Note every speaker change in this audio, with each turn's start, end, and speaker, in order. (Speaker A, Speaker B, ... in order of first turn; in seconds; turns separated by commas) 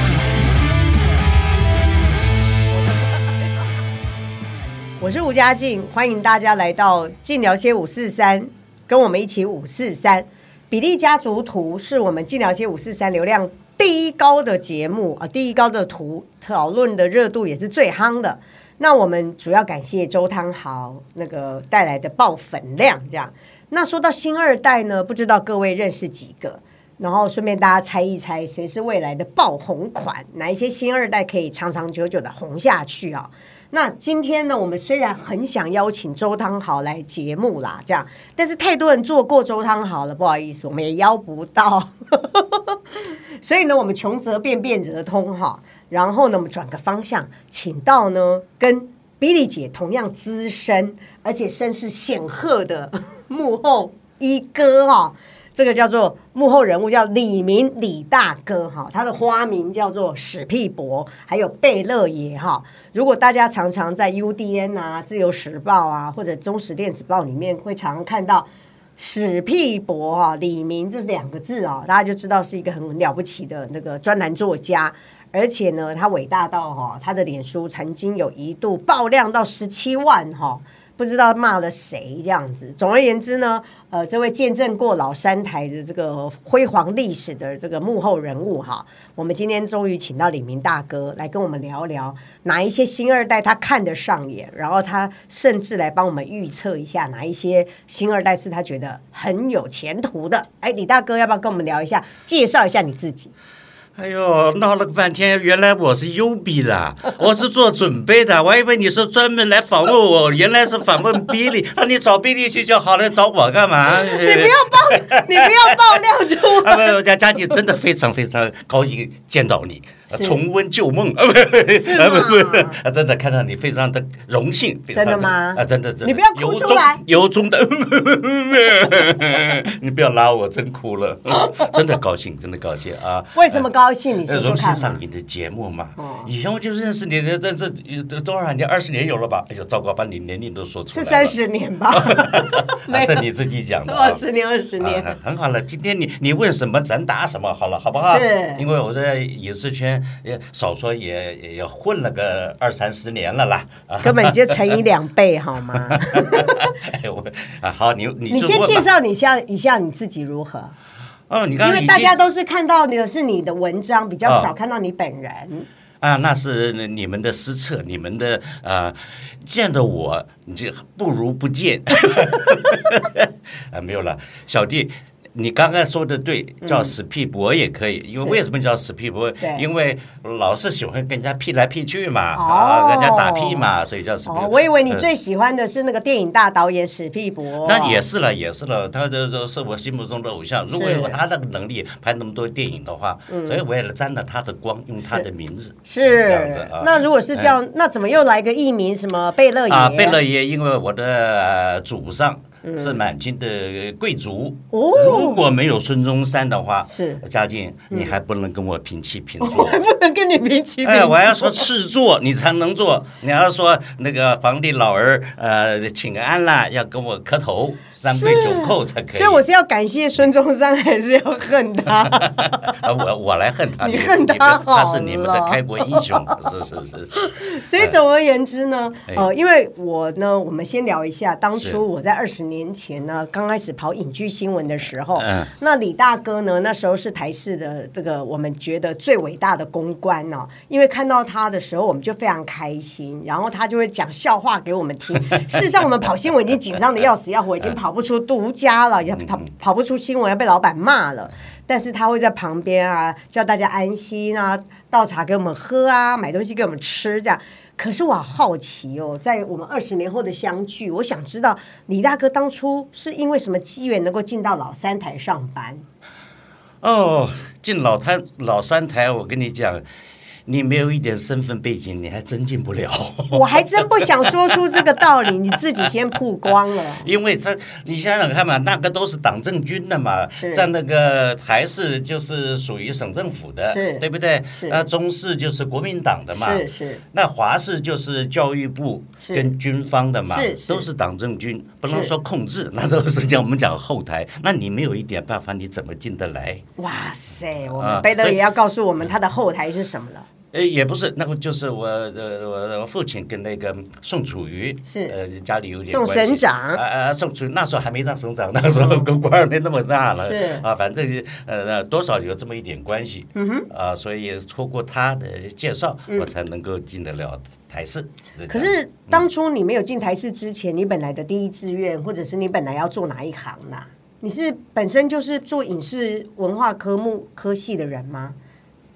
Speaker A: 5.0-103.3, Speaker B: 104.0-133.6, Speaker A: 113.9-117.0, Speaker A: 120.1-120.4, Speaker A: 121.8-122.8, Speaker A: 124.9-127.0, Speaker A: 131.3-131.7, Speaker A: 133.3-135.0, Speaker B: 134.3-141.3, Speaker A: 136.0-136.3, Speaker A: 140.9-143.2, Speaker B: 141.9-144.2, Speaker A: 143.8-145.1, Speaker B: 144.8-154.8, Speaker A: 148.0-148.6, Speaker A: 154.0-156.8, Speaker B: 155.7-158.8, Speaker A: 158.3-160.7, Speaker B: 161.3-162.2, Speaker A: 161.6-165.7, Speaker B: 166.0-185.1, Speaker A: 176.6-176.9, Speaker A: 179.4-179.6, Speaker A: 182.3-183.7, Speaker A: 184.2-188.0, Speaker B: 187.6-197.5, Speaker A: 190.7-191.2, Speaker A: 193.3-193.6, Speaker A: 195.9-200.2, Speaker B: 199.7-209.8, Speaker A: 202.6-203.0, Speaker A: 204.7-205.4, Speaker A: 206.9-207.2, Speaker A: 209.4-211.6, Speaker B: 210.8-219.4, Speaker A: 218.1-222.8, Speaker B: 222.0-227.9, Speaker A: 223.8-226.5, Speaker A: 227.1-265.8, Speaker B: 235.2-235.5, Speaker B: 249.1-249.4, Speaker B: 266.8-269.8, Speaker B: 270.4-275.0, Speaker A: 273.3-277.1, Speaker B: 276.5-296.6, Speaker A: 280.3-280.7, Speaker A: 283.6-284.8, Speaker A: 286.3-287.0, Speaker A: 289.2-289.5, Speaker A: 290.3-290.9, Speaker A: 291.9-292.1, Speaker A: 296.8-300.2, Speaker B: 297.7-298.4, Speaker B: 300.5-319.2, Speaker A: 304.9-305.2, Speaker A: 305.9-306.8, Speaker A: 308.7-309.1, Speaker A: 310.2-310.6, Speaker A: 313.3-313.7, Speaker A: 318.5-328.4